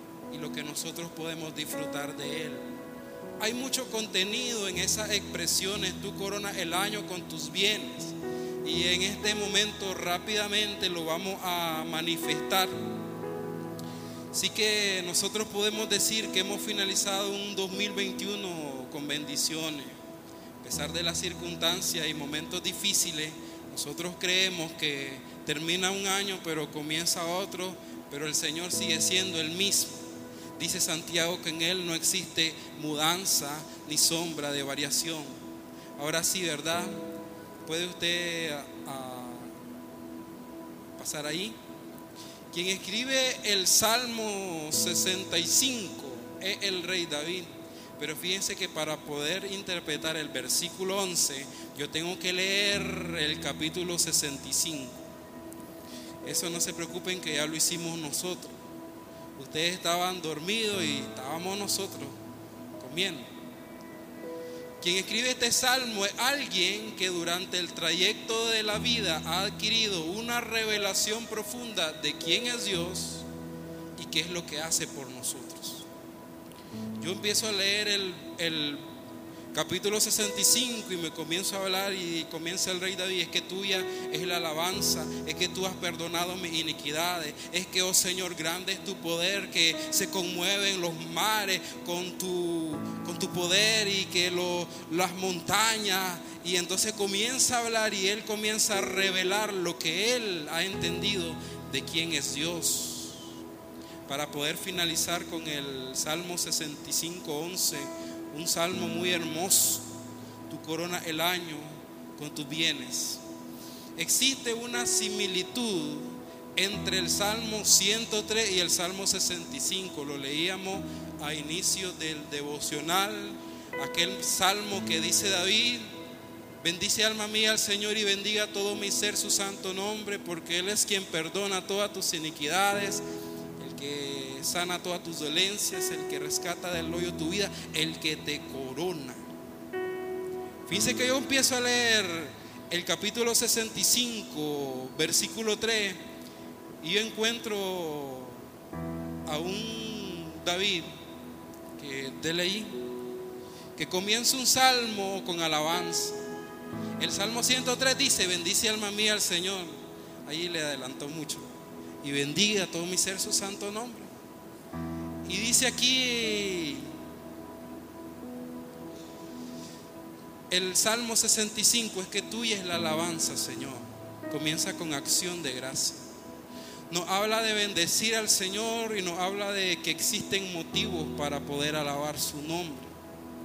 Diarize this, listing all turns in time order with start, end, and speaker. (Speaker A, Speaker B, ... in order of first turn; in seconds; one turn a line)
Speaker A: 0.3-2.8
Speaker A: 3.4-12.8
Speaker A: 14.3-20.0
Speaker A: 20.6-30.0
Speaker A: 30.6-35.4
Speaker A: 36.0-37.1
Speaker A: 37.6-39.5
Speaker A: 41.0-41.6
Speaker A: 42.5-55.0
Speaker A: 56.2-58.6
Speaker A: 59.4-62.2
Speaker A: 62.8-63.3
Speaker A: 64.8-73.3
Speaker A: 74.0-75.9
Speaker A: 77.0-78.9
Speaker A: 79.5-103.3
Speaker A: 104.0-109.9
Speaker A: 110.5-113.2
Speaker A: 114.0-125.9
Speaker A: 126.6-133.0
Speaker A: 133.6-139.2
Speaker A: 140.7-146.0
Speaker A: 146.8-148.4
Speaker A: 149.2-151.0
Speaker A: 151.8-152.9
Speaker A: 153.7-156.2
Speaker A: 157.0-161.5
Speaker A: 162.0-164.1
Speaker A: 165.2-166.9
Speaker A: 170.5-176.1
Speaker A: 176.9-182.9